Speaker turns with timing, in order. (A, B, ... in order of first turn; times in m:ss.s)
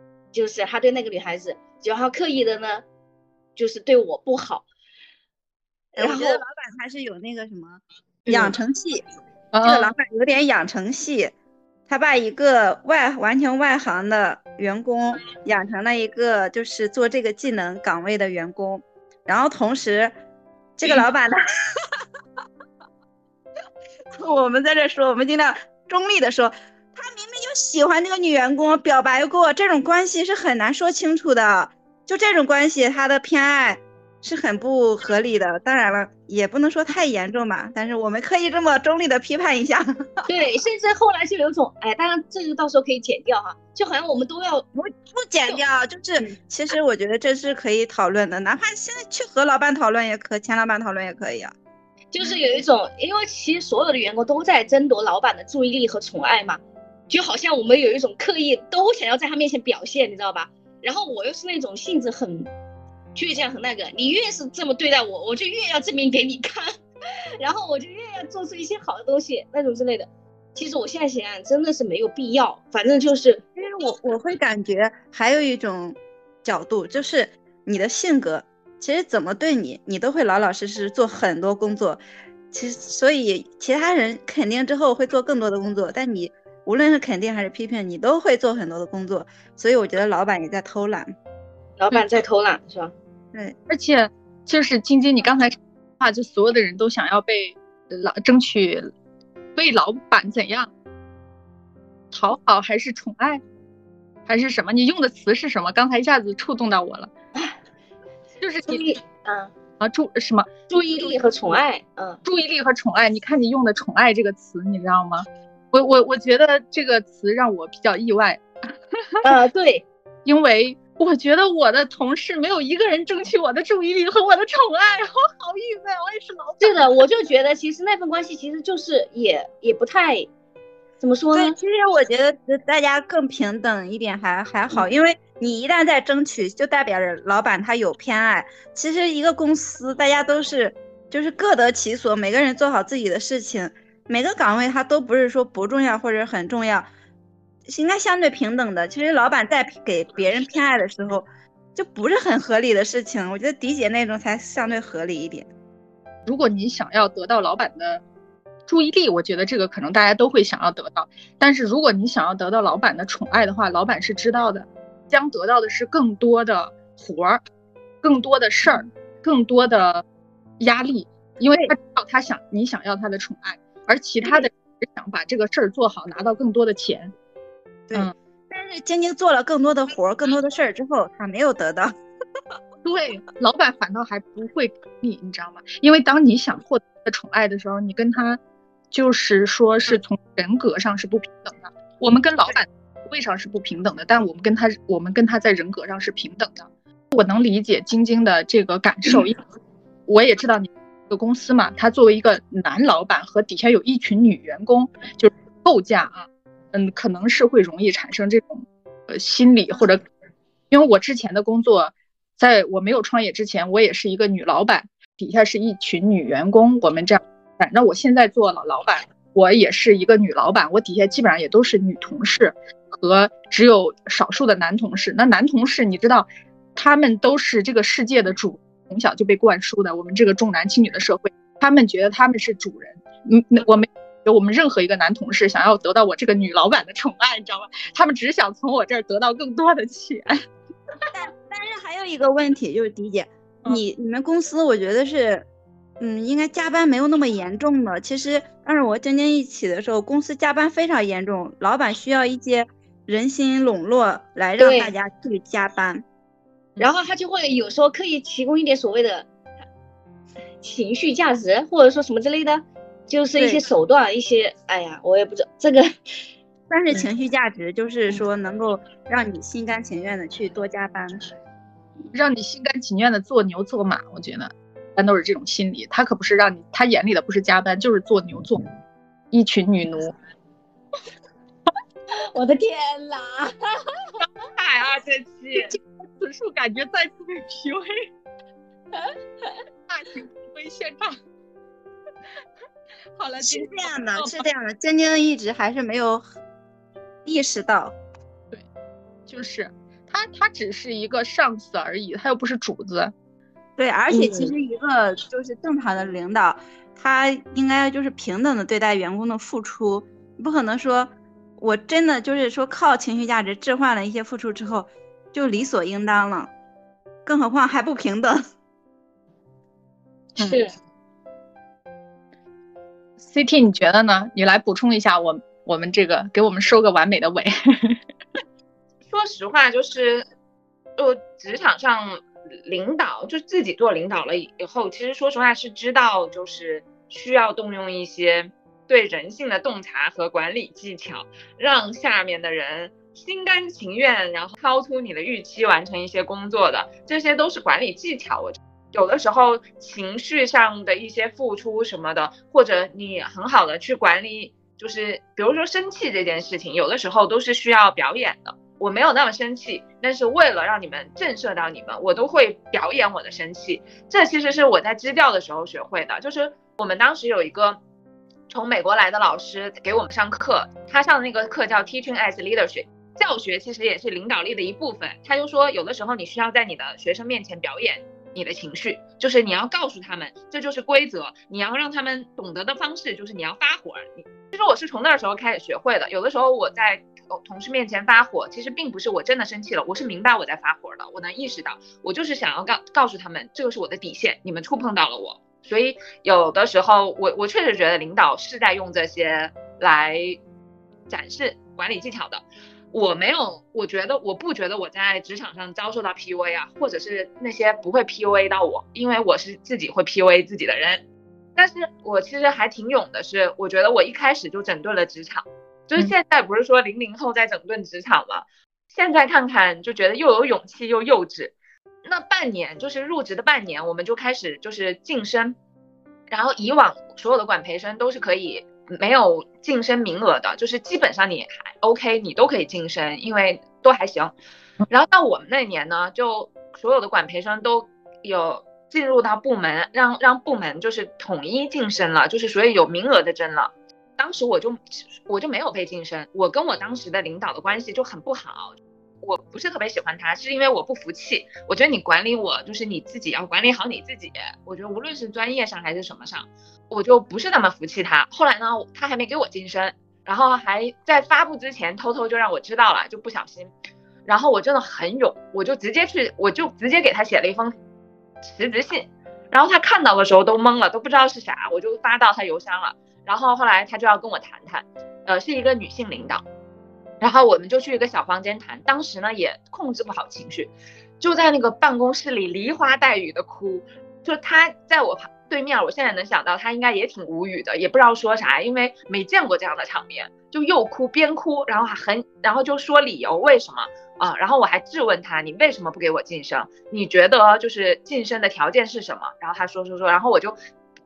0:00.3-0:02.8 A
0:03.6-0:04.7 A
0:06.0-0:06.4 A
0:06.0-0:09.0 B
0:08.3-0:08.6 A
0:09.5-0:09.9 C
0:09.6-0:11.3 B
0:11.9-0:20.1 B
0:20.8-0:21.4 B
0:24.1-0:40.2 B
0:40.3-0:44.7 A
0:44.8-0:51.5 B
0:52.1-1:02.5 A
1:03.2-1:06.7 A
1:07.4-1:13.4 A
1:13.6-1:31.1 B
1:31.8-1:32.9 A
1:33.7-1:38.9 C
1:39.6-1:40.7 C
1:42.1-1:43.4 C
1:44.3-1:47.1 C
1:48.4-1:49.0 C
1:48.7-1:49.5 A
1:49.8-1:51.1 C
1:50.7-1:52.2 A
1:52.2-1:58.7 C
1:59.2-1:59.8 A
2:00.3-2:07.0 C
2:06.6-2:10.3 A
2:11.0-2:11.6 A
2:11.3-2:26.9 B
2:27.7-2:35.5 B
2:36.3-2:38.0 C
2:38.7-2:47.4 C
2:48.0-2:50.0 C
2:50.6-2:57.1 C
2:57.9-3:02.0 B
3:02.8-3:08.4 C
3:08.9-3:19.4 C
3:20.1-3:30.0 C
3:30.7-4:00.4 C
4:01.1-4:05.5 B
4:06.0-4:16.0 B
4:14.6-4:14.9 A
4:16.8-4:19.3 A
4:20.6-4:25.9 A
4:23.4-4:23.6 B
4:26.7-4:31.3 B
4:32.1-4:38.6 C
4:39.3-4:40.2 C
4:42.2-4:44.1 A
4:44.2-4:45.8 D
4:45.6-4:48.1 C
4:48.9-4:49.6 A
4:49.9-4:51.2 C
4:53.2-4:54.4 C
4:53.4-4:56.3 B
4:57.2-4:58.0 B
4:59.3-5:03.1 C
5:03.8-5:16.5 B
5:04.1-5:04.5 A
5:17.3-5:18.4 B
5:20.4-5:20.7 A
5:23.2-5:28.0 C
5:29.1-5:30.3 D
5:31.0-6:07.8 D
6:08.5-6:40.4 D
6:41.1-6:51.0 D
6:51.6-7:05.6 D
7:06.3-7:14.3 D
7:14.9-7:43.7 D
7:44.3-7:47.8 D
7:48.4-7:56.4 D
7:57.2-8:20.6 D